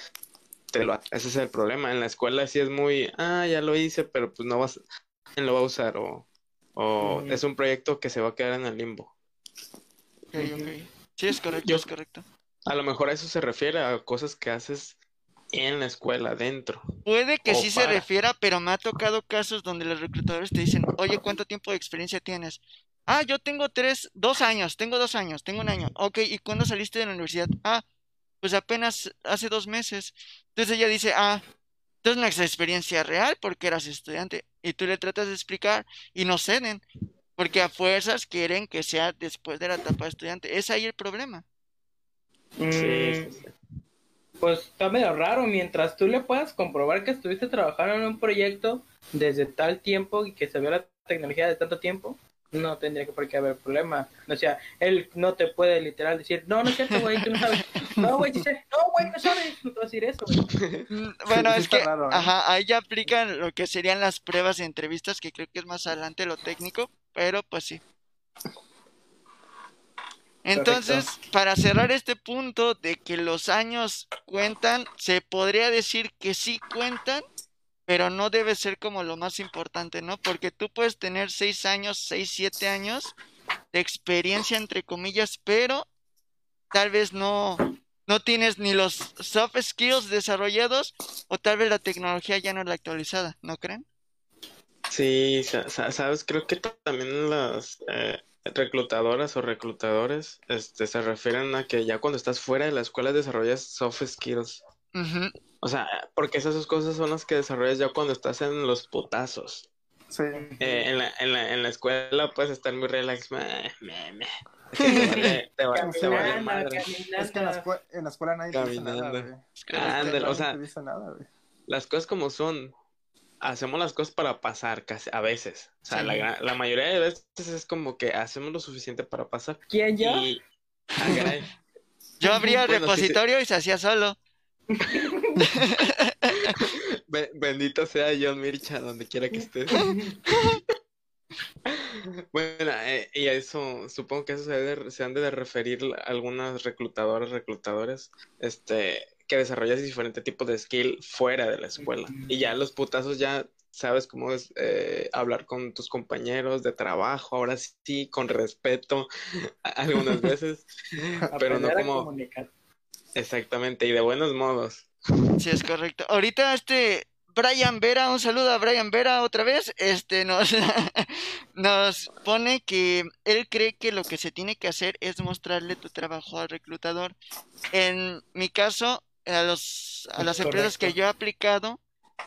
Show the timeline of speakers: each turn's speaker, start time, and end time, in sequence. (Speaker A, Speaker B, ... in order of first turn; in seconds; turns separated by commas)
Speaker A: 0.7-4.8, Speaker A: 5.3-9.1, Speaker B: 7.0-7.4, Speaker C: 10.3-12.2, Speaker B: 10.3-10.7, Speaker A: 12.7-15.0, Speaker A: 15.5-16.8, Speaker C: 17.0-27.8, Speaker A: 17.5-18.1, Speaker C: 28.4-31.4, Speaker C: 32.0-36.8, Speaker C: 37.4-41.4, Speaker B: 42.6-43.3, Speaker A: 42.7-43.5, Speaker B: 44.4-60.4, Speaker A: 60.5-60.9, Speaker C: 60.9-67.8, Speaker D: 61.3-62.3, Speaker C: 70.4-77.2, Speaker B: 70.5-71.1, Speaker C: 77.9-83.1, Speaker C: 83.7-85.9, Speaker C: 86.7-93.8, Speaker A: 94.9-104.6, Speaker C: 104.9-105.3, Speaker A: 105.6-109.7, Speaker D: 110.1-110.4, Speaker B: 110.3-110.9, Speaker A: 110.6-116.8, Speaker C: 114.8-115.3, Speaker B: 115.2-117.6, Speaker D: 115.7-116.4, Speaker D: 117.2-121.3, Speaker A: 118.5-120.6, Speaker C: 119.6-120.4, Speaker A: 121.7-122.7, Speaker A: 123.4-130.4, Speaker B: 125.9-126.2, Speaker B: 129.7-130.3, Speaker A: 131.0-131.5, Speaker C: 132.2-134.2, Speaker B: 132.3-132.5, Speaker A: 132.7-133.2, Speaker B: 134.7-135.4, Speaker C: 135.5-136.6, Speaker A: 136.6-139.8, Speaker B: 139.7-140.2, Speaker C: 139.8-140.6, Speaker A: 141.7-159.1, Speaker B: 151.8-152.5, Speaker A: 159.6-162.1, Speaker B: 161.3-162.5, Speaker A: 163.2-164.9, Speaker C: 165.4-177.1, Speaker C: 177.7-181.8, Speaker B: 180.2-180.9